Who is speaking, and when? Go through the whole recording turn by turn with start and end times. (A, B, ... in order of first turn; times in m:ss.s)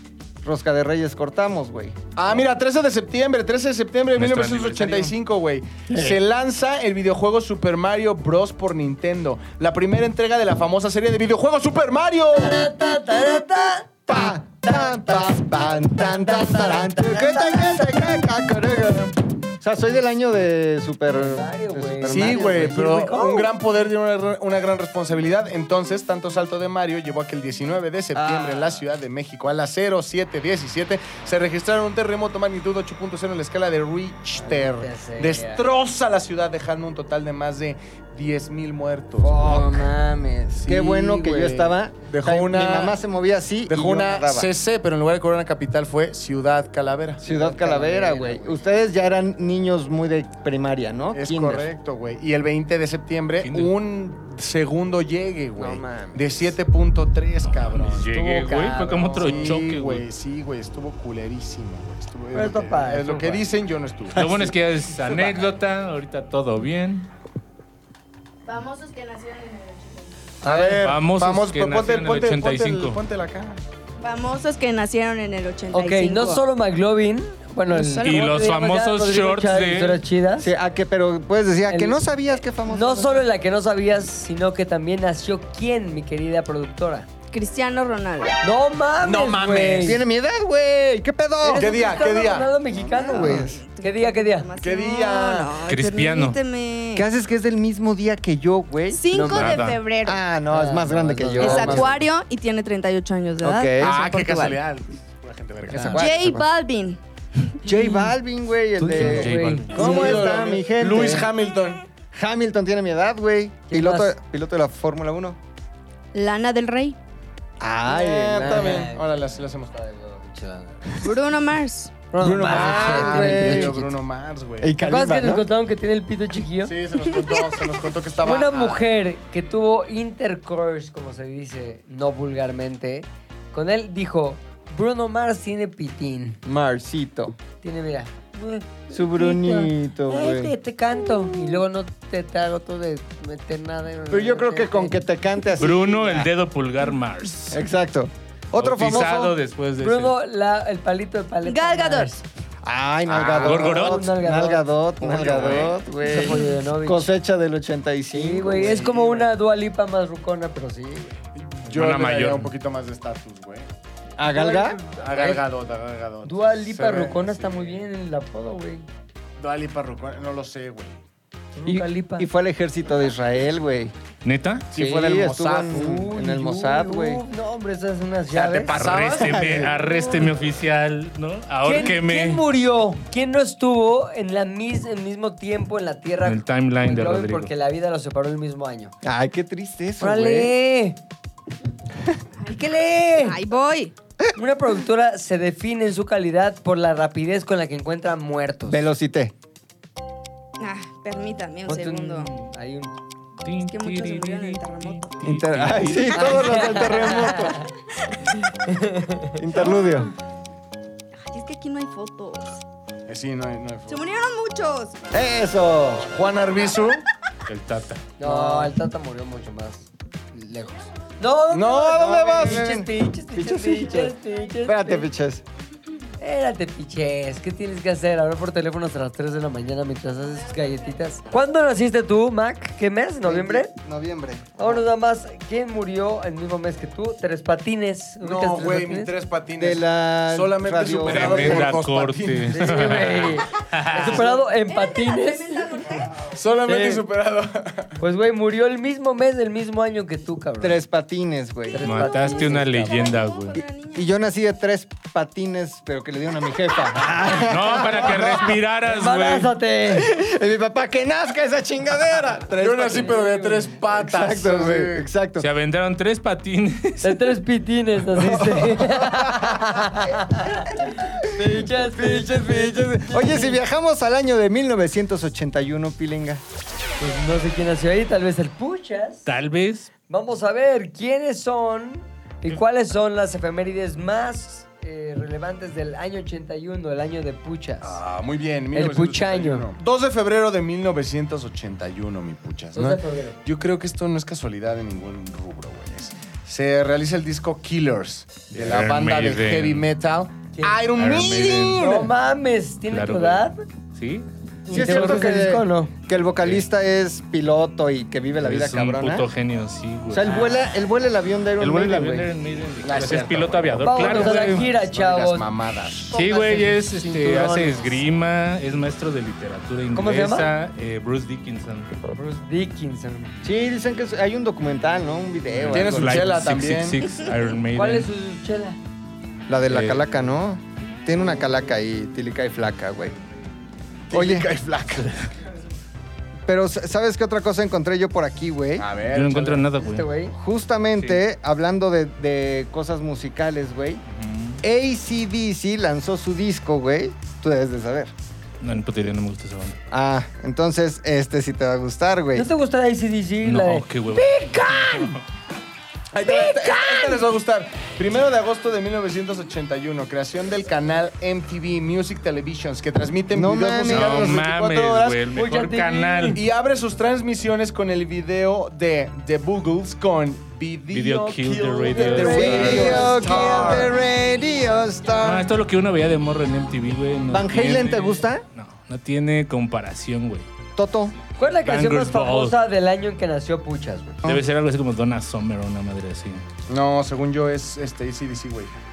0:00.4-0:02.0 A
0:02.2-0:12.7 B
0:04.2-0:05.1 C
0:05.9-0:06.2 A
0:12.3-0:18.2 D
0:14.1-0:22.9 A
0:21.1-0:23.5 D
0:22.0-0:39.7 B
0:28.2-0:28.8 D
0:34.4-0:35.6 D
0:39.2-0:44.5 A
0:40.6-0:43.0 B
0:43.7-0:47.2 B
0:47.2-0:51.7 A
0:47.2-0:48.6 D
0:51.1-0:58.1 B
0:53.4-0:53.7 C
0:55.6-0:56.3 A
0:57.4-1:00.0 C
0:58.1-0:59.6 D
0:59.2-1:05.5 B
1:02.3-1:03.4 D
1:04.1-1:07.1 C
1:08.4-1:10.4 E
1:10.4-1:13.6 B
1:10.4-1:10.8 D
1:10.8-1:13.0 C
1:14.0-1:16.4 E
1:15.7-1:20.5 D
1:17.7-1:18.3 E
1:18.0-1:20.0 C
1:20.4-1:23.2 A
1:21.7-1:22.0 D
1:22.6-1:27.1 D
1:27.3-1:28.4 E
1:28.4-1:30.0 D
1:29.0-1:30.0 B
1:29.8-1:31.8 A
1:31.4-1:34.5 D
1:31.5-1:32.6 B
1:32.7-1:33.6 A
1:33.0-1:37.0 E
1:34.6-1:35.6 B
1:35.6-1:36.4 C
1:36.9-1:39.1 A
1:38.9-1:40.2 E
1:39.1-1:39.6 D
1:39.2-1:39.8 C
1:40.0-1:42.0 A
1:40.5-1:42.0 D
1:41.4-1:44.6 E
1:43.4-1:44.0 A
1:43.8-1:46.2 B
1:45.7-1:46.4 A
1:45.9-1:47.6 E
1:47.6-1:51.3 A
1:48.8-1:50.2 D
1:48.8-1:49.7 C
1:49.7-1:51.8 B
1:52.1-1:55.4 A
1:53.7-1:54.1 D
1:56.1-1:57.0 E
1:57.6-1:58.9 A
1:57.9-2:01.1 D
1:58.2-1:59.7 B
2:01.0-2:02.1 E
2:02.1-2:03.8 D
2:02.2-2:03.9 A
2:02.3-2:04.7 B
2:04.6-2:05.4 A
2:04.8-2:06.7 D
2:06.6-2:08.8 B
2:08.2-2:16.4 D
2:16.4-2:17.4 A
2:17.6-2:25.0 D
2:18.9-2:20.5 A
2:24.1-2:26.3 A
2:25.6-2:27.6 C
2:27.5-2:29.4 A
2:28.5-2:30.2 C
2:29.8-2:32.2 D
2:31.4-2:32.1 E
2:32.6-2:38.9 A
2:33.1-2:33.7 B
2:33.3-2:34.1 C
2:33.5-2:34.7 D
2:35.0-2:35.8 B
2:36.0-2:37.1 D
2:38.1-2:41.2 D
2:38.6-2:39.3 B
2:41.3-2:43.7 B
2:41.7-2:42.5 C
2:44.2-2:44.8 A
2:44.3-2:45.4 D
2:45.0-2:47.8 B
2:46.2-2:48.9 D
2:49.4-2:51.0 B
2:51.6-2:52.3 D
2:51.7-2:53.9 A
2:54.2-2:54.7 C
2:54.7-2:55.9 B
2:54.7-2:57.2 A
2:55.6-2:58.8 D
2:58.3-2:59.8 B
2:58.7-3:02.5 C
2:59.1-2:59.8 A
3:01.6-3:08.9 D
3:06.2-3:07.5 C
3:09.0-3:10.5 A
3:10.0-3:11.0 D
3:12.4-3:13.4 D
3:13.2-3:13.9 E
3:14.4-3:18.8 D
3:18.7-3:19.3 A
3:20.6-3:22.3 E
3:21.6-3:22.9 D
3:23.4-3:26.7 C
3:23.6-3:25.2 E
3:25.2-3:27.6 A
3:26.2-3:27.7 D
3:26.2-3:27.3 E
3:28.0-3:28.4 E
3:28.6-3:29.4 D
3:29.4-3:30.1 A
3:31.3-3:32.6 E
3:33.1-3:34.0 B
3:33.9-3:35.0 E
3:35.1-3:36.1 A
3:36.0-3:37.0 B
3:37.5-3:38.0 C
3:38.2-3:45.1 D
3:38.2-3:38.7 A
3:41.5-3:42.2 B
3:41.7-3:45.4 A
3:46.2-3:53.7 D
3:53.2-3:54.8 A
3:54.6-3:59.1 D
3:58.2-4:03.1 B
3:59.6-4:01.8 A
4:01.0-4:04.3 C
4:02.5-4:06.0 D
4:04.5-4:06.2 E
4:06.3-4:07.9 B
4:06.6-4:07.0 D
4:08.0-4:10.8 D
4:10.6-4:12.0 A
4:11.7-4:13.2 D
4:11.8-4:13.6 C
4:12.9-4:14.1 E
4:13.9-4:18.6 A
4:17.4-4:19.5 C
4:18.8-4:20.1 D
4:19.9-4:23.2 A
4:22.6-4:25.0 B
4:22.9-4:23.8 D
4:23.9-4:25.5 A
4:25.4-4:27.3 C
4:27.0-4:33.6 D
4:28.2-4:30.1 A
4:30.8-4:36.4 A
4:37.0-4:39.3 D
4:39.2-4:39.9 C
4:40.1-4:48.0 D
4:47.8-5:02.1 B
4:48.7-4:49.7 D
4:52.7-4:53.4 D
4:58.5-4:59.8 C
5:00.9-5:01.9 C
5:01.8-5:03.6 D
5:02.9-5:05.3 C
5:04.6-5:05.9 D
5:04.7-5:09.3 A
5:08.4-5:10.5 C
5:10.1-5:12.3 A
5:11.6-5:14.7 C
5:12.8-5:16.1 B
5:13.8-5:15.5 D
5:16.0-5:21.9 C
5:16.1-5:18.0 D
5:19.9-5:20.5 D
5:22.1-5:23.3 D
5:23.4-5:26.4 A
5:25.5-5:28.1 C
5:25.7-5:27.0 B
5:27.7-5:28.8 D
5:29.5-5:33.2 A
5:29.7-5:30.1 C
5:34.1-5:35.1 B
5:34.1-5:34.5 A
5:36.5-5:38.9 A
5:38.8-5:39.6 B
5:39.1-5:40.1 C
5:39.8-5:40.3 D
5:40.3-5:44.0 A
5:44.1-5:44.6 C
5:44.6-5:48.1 A
5:48.6-5:49.8 C
5:49.9-5:52.5 A
5:52.3-5:55.2 D
5:53.4-5:55.2 C
5:56.1-6:05.2 B
5:56.2-5:57.2 D
6:03.3-6:04.4 A
6:03.8-6:06.4 C
6:05.3-6:06.4 D
6:06.3-6:13.9 B
6:10.9-6:13.2 C
6:12.0-6:13.9 D
6:12.2-6:15.5 A
6:15.2-6:20.5 C
6:17.3-6:18.4 A
6:20.8-6:21.1 A
6:21.4-6:24.2 D
6:21.4-6:22.5 C
6:24.2-6:26.4 C
6:26.7-6:28.7 B